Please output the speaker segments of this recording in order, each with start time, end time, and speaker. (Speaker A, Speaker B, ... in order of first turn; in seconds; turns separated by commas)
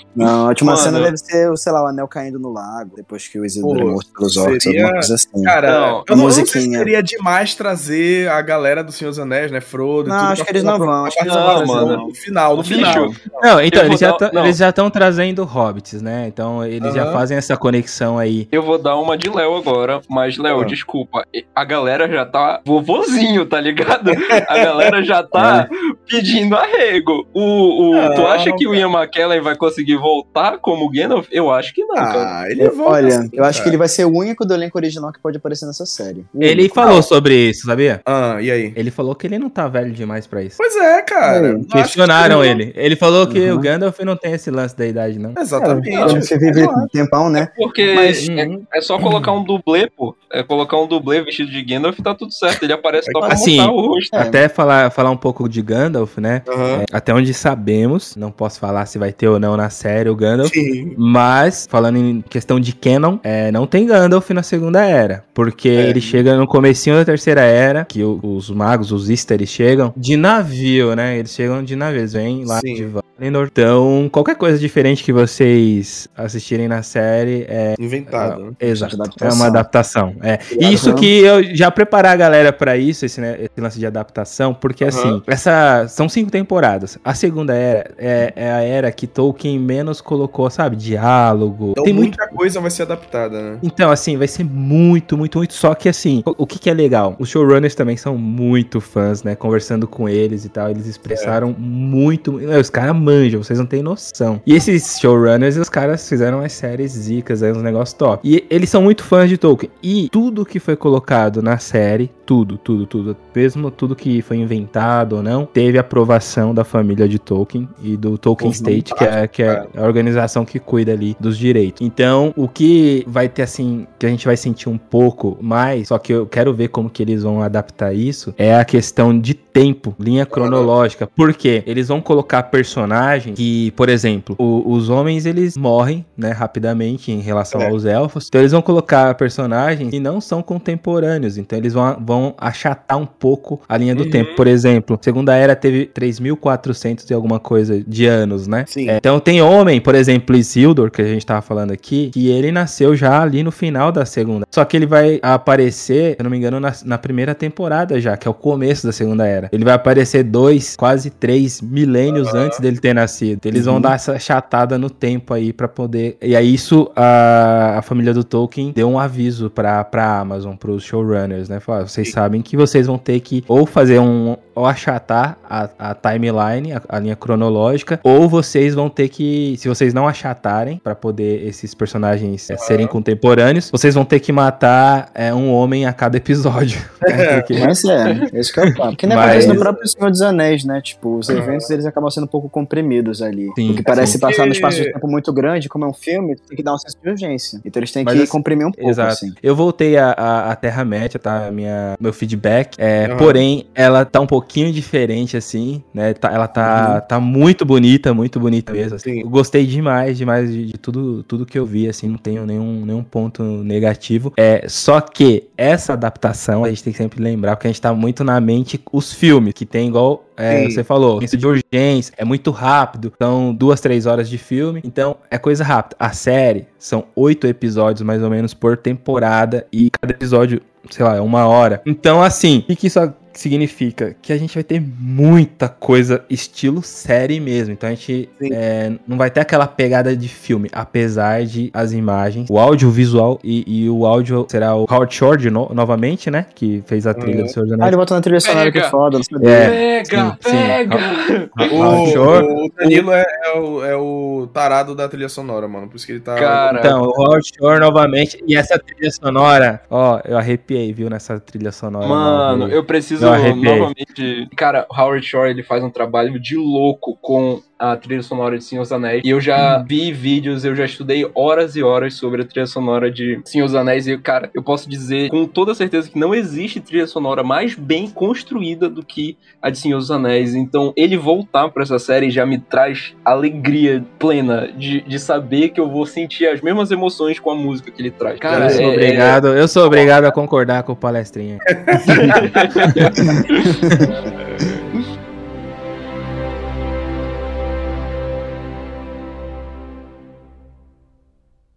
Speaker A: 0.1-5.5, Speaker B: 0.6-1.1, Speaker C: 0.7-1.1, Speaker C: 3.6-13.4, Speaker B: 5.6-6.1, Speaker A: 6.1-6.9, Speaker A: 10.1-13.1, Speaker B: 11.2-12.0, Speaker B: 12.6-13.1, Speaker D: 13.4-18.5, Speaker B: 13.7-14.6, Speaker C: 16.8-17.2, Speaker B: 18.5-32.3, Speaker A: 25.3-25.7, Speaker C: 27.9-28.8, Speaker C: 32.0-33.8, Speaker A: 32.6-37.0, Speaker D: 36.4-38.0, Speaker C: 38.0-38.8, Speaker D: 38.7-40.6, Speaker C: 40.6-42.6, Speaker A: 41.2-41.6, Speaker D: 41.7-45.4, Speaker A: 43.3-43.7, Speaker C: 45.4-46.9, Speaker A: 45.6-47.5, Speaker B: 45.9-46.3, Speaker B: 47.4-54.1, Speaker D: 48.2-48.6, Speaker D: 53.2-92.2, Speaker A: 54.1-54.4, Speaker C: 56.5-56.9, Speaker C: 60.4-61.0, Speaker C: 65.8-66.2, Speaker C: 72.5-72.9, Speaker C: 77.8-78.6, Speaker A: 78.7-79.6, Speaker C: 80.5-81.0, Speaker A: 80.6-81.1, Speaker C: 84.8-85.2, Speaker C: 91.8-93.6, Speaker D: 93.6-187.7, Speaker C: 101.1-101.4, Speaker C: 118.4-119.7, Speaker A: 118.4-118.8, Speaker C: 130.3-130.7, Speaker C: 143.9-144.4, Speaker C: 148.7-149.0, Speaker C: 162.1-162.6, Speaker A: 163.5-163.9, Speaker C: 182.5-182.9, Speaker C: 187.1-187.5, Speaker A: 187.6-199.3, Speaker D: 189.0-189.6, Speaker C: 189.2-189.9, Speaker C: 191.3-191.7, Speaker D: 193.5-194.2, Speaker C: 194.2-194.9, Speaker D: 198.0-247.9, Speaker C: 203.0-203.4, Speaker A: 206.6-207.0, Speaker C: 220.5-220.8, Speaker C: 247.1-247.5, Speaker A: 247.8-249.8, Speaker B: 248.4-248.9, Speaker D: 249.4-253.0, Speaker B: 249.5-252.2, Speaker C: 251.7-256.7, Speaker B: 256.4-257.1, Speaker D: 256.7-263.9, Speaker B: 262.0-290.3, Speaker D: 288.4-292.1, Speaker C: 291.7-293.1, Speaker B: 292.1-293.7, Speaker A: 293.3-294.1